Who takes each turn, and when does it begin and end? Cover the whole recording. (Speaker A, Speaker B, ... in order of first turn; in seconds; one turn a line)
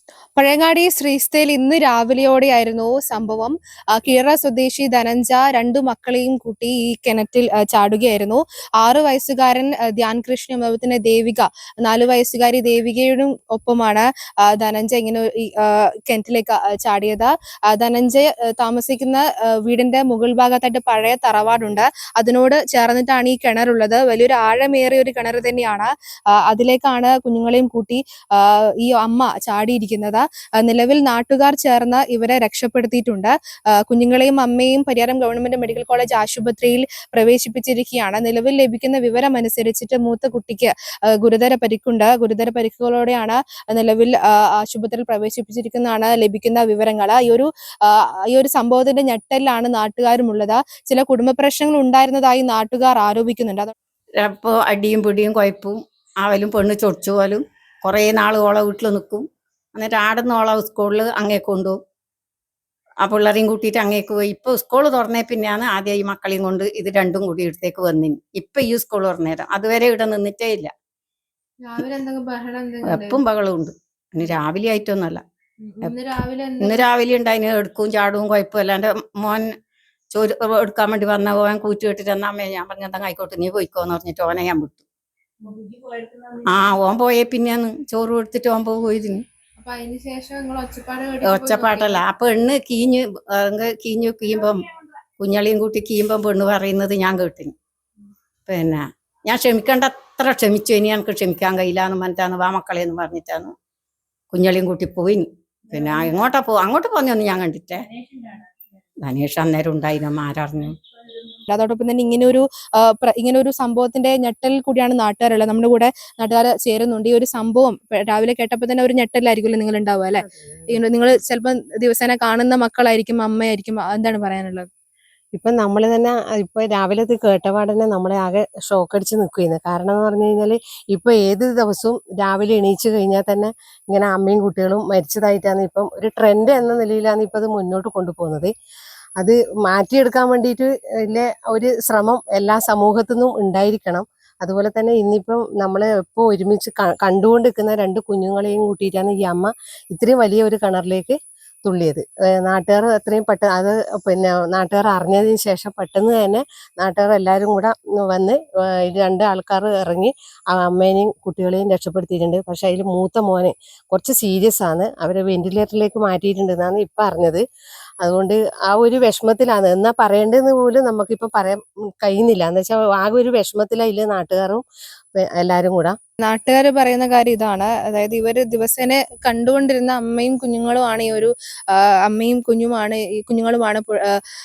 Speaker A: 0.4-53.7
Speaker B: 54.2-61.8
Speaker B: 63.0-70.7
Speaker A: 71.6-73.2
Speaker B: 72.8-75.2
Speaker A: 75.6-76.9
Speaker B: 76.6-79.5
Speaker B: 80.1-84.8
Speaker B: 86.3-89.2
Speaker A: 89.6-92.0
Speaker B: 91.2-97.5
Speaker B: 98.5-103.5
Speaker B: 104.3-107.9
Speaker B: 109.0-110.8
Speaker A: 111.5-124.7
Speaker C: 120.2-120.8
Speaker C: 125.3-138.5
Speaker C: 139.2-167.4
Speaker C: 168.0-174.6
Speaker C: 175.2-176.0
Speaker A: 176.2-184.2